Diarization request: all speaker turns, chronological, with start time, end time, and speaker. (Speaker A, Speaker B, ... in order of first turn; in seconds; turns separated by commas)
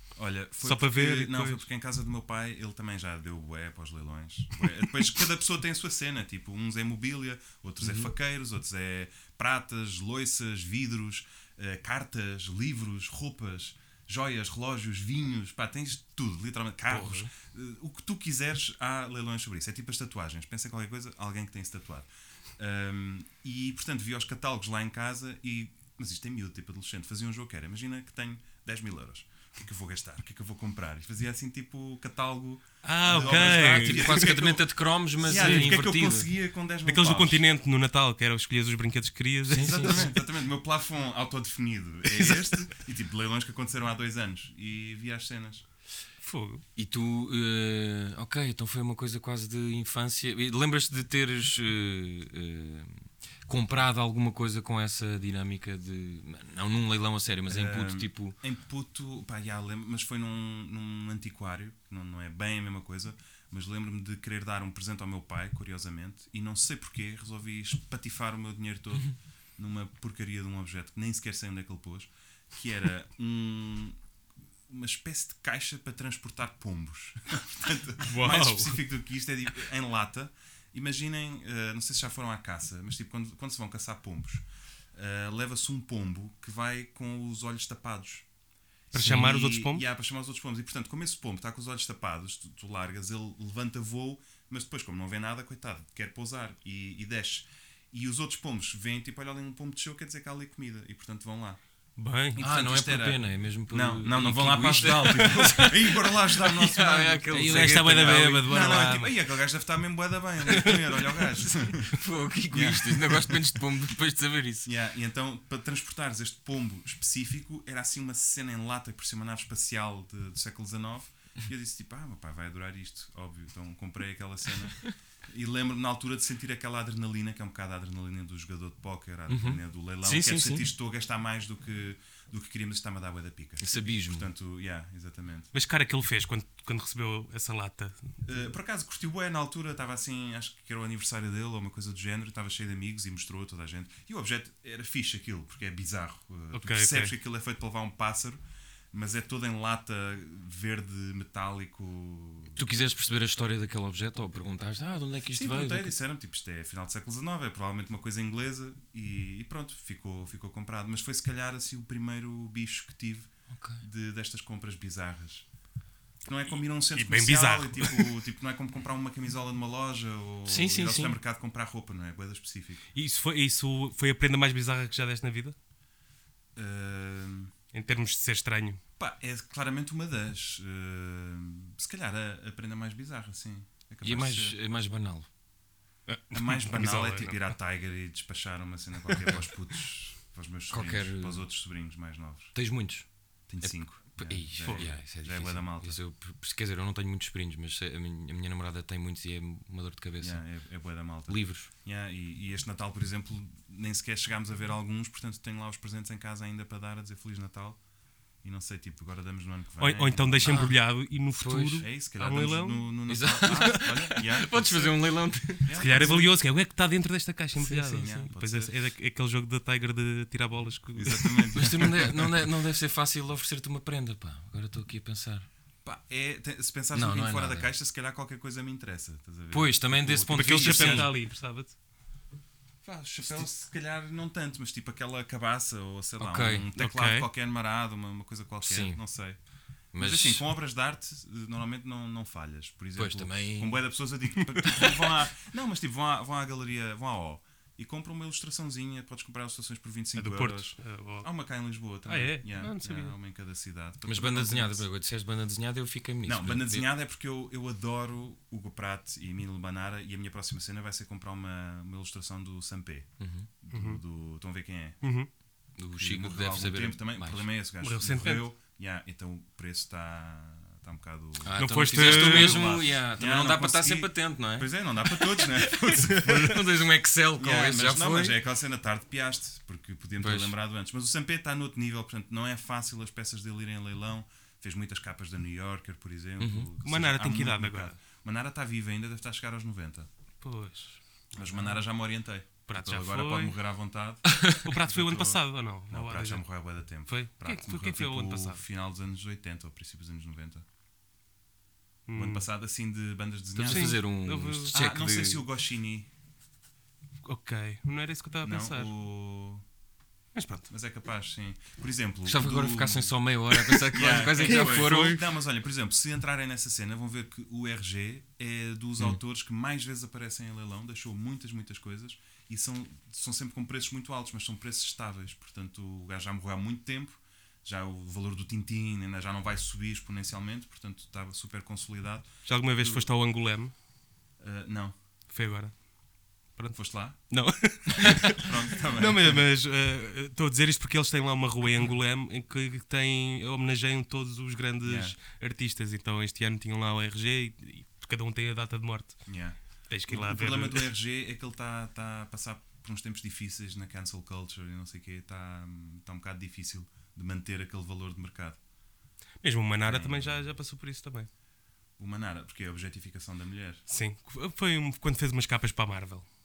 Speaker A: 0.2-34.7, Speaker B: 0.6-1.6, Speaker C: 7.8-8.1, Speaker C: 16.9-17.3, Speaker B: 32.8-34.4, Speaker C: 33.1-36.3, Speaker A: 35.2-37.4, Speaker B: 35.3-35.8, Speaker B: 36.9-40.1, Speaker C: 39.5-40.1, Speaker A: 39.5-45.6, Speaker B: 42.1-42.5, Speaker B: 46.2-46.6, Speaker C: 46.8-58.4, Speaker A: 57.5-74.0, Speaker A: 74.7-88.2, Speaker B: 78.0-78.8, Speaker B: 88.9-89.8, Speaker A: 88.9-101.6, Speaker C: 89.0-89.3, Speaker B: 102.0-102.4, Speaker A: 102.3-113.6, Speaker C: 102.4-108.6, Speaker B: 107.3-109.1, Speaker B: 110.5-110.9, Speaker C: 111.7-114.7, Speaker A: 114.7-135.5, Speaker C: 129.3-130.7, Speaker C: 133.6-134.3, Speaker B: 135.5-138.2, Speaker A: 138.2-148.4, Speaker B: 146.5-147.1, Speaker A: 148.9-152.6, Speaker C: 152.5-156.0, Speaker A: 155.3-163.3, Speaker C: 163.5-163.8, Speaker A: 163.8-165.5, Speaker A: 166.2-172.9, Speaker B: 167.0-168.2, Speaker C: 170.5-171.2, Speaker B: 172.9-175.6, Speaker A: 176.6-177.5, Speaker B: 177.7-178.8, Speaker A: 179.0-184.6, Speaker C: 184.0-185.3, Speaker B: 186.1-187.4, Speaker A: 186.3-192.5, Speaker C: 190.7-191.5, Speaker C: 192.6-193.1, Speaker A: 193.5-196.0, Speaker C: 193.6-200.4, Speaker A: 200.2-207.8, Speaker C: 201.3-201.7, Speaker A: 208.4-210.7, Speaker B: 209.8-212.9, Speaker C: 210.4-210.8, Speaker C: 211.4-211.8, Speaker A: 211.8-216.3, Speaker C: 213.1-215.8, Speaker B: 213.5-213.8, Speaker B: 215.8-221.7, Speaker C: 217.6-218.2, Speaker A: 217.9-218.8, Speaker A: 221.0-222.4, Speaker C: 221.5-225.5, Speaker A: 225.8-231.1, Speaker C: 226.9-227.7, Speaker C: 229.5-231.1, Speaker B: 230.3-231.8, Speaker A: 232.8-239.4, Speaker C: 236.2-236.7, Speaker B: 236.8-237.3, Speaker C: 238.6-239.0, Speaker C: 239.9-240.5, Speaker A: 240.0-254.9, Speaker C: 243.0-243.8, Speaker B: 250.2-251.3, Speaker B: 252.1-253.1, Speaker C: 254.1-256.9, Speaker A: 256.2-265.0, Speaker C: 263.2-263.5, Speaker B: 263.7-264.0, Speaker B: 265.0-265.3, Speaker C: 265.8-267.5, Speaker A: 266.0-276.6, Speaker B: 267.8-268.4, Speaker C: 271.4-278.4, Speaker B: 271.6-272.7, Speaker A: 277.4-290.1, Speaker C: 280.2-280.5, Speaker C: 286.4-286.7, Speaker B: 286.8-287.9, Speaker B: 290.4-291.8, Speaker A: 291.4-300.7, Speaker B: 292.7-293.6, Speaker C: 294.3-294.6, Speaker B: 294.6-298.6, Speaker B: 302.1-302.5, Speaker A: 302.1-304.0, Speaker C: 303.6-305.4, Speaker B: 303.6-304.7, Speaker A: 304.7-306.1, Speaker B: 307.2-308.9, Speaker A: 308.4-309.6, Speaker B: 310.3-310.7, Speaker A: 310.7-313.1, Speaker C: 312.3-315.2, Speaker A: 313.9-333.1, Speaker B: 314.3-315.2, Speaker B: 332.5-333.7, Speaker A: 334.4-334.9, Speaker B: 335.3-335.8, Speaker B: 336.6-349.3, Speaker A: 336.8-337.2, Speaker A: 337.9-339.5, Speaker A: 344.8-345.2, Speaker A: 349.3-358.6, Speaker B: 349.9-350.9, Speaker B: 359.4-361.3, Speaker A: 359.9-360.5, Speaker A: 362.0-363.8, Speaker B: 363.9-366.3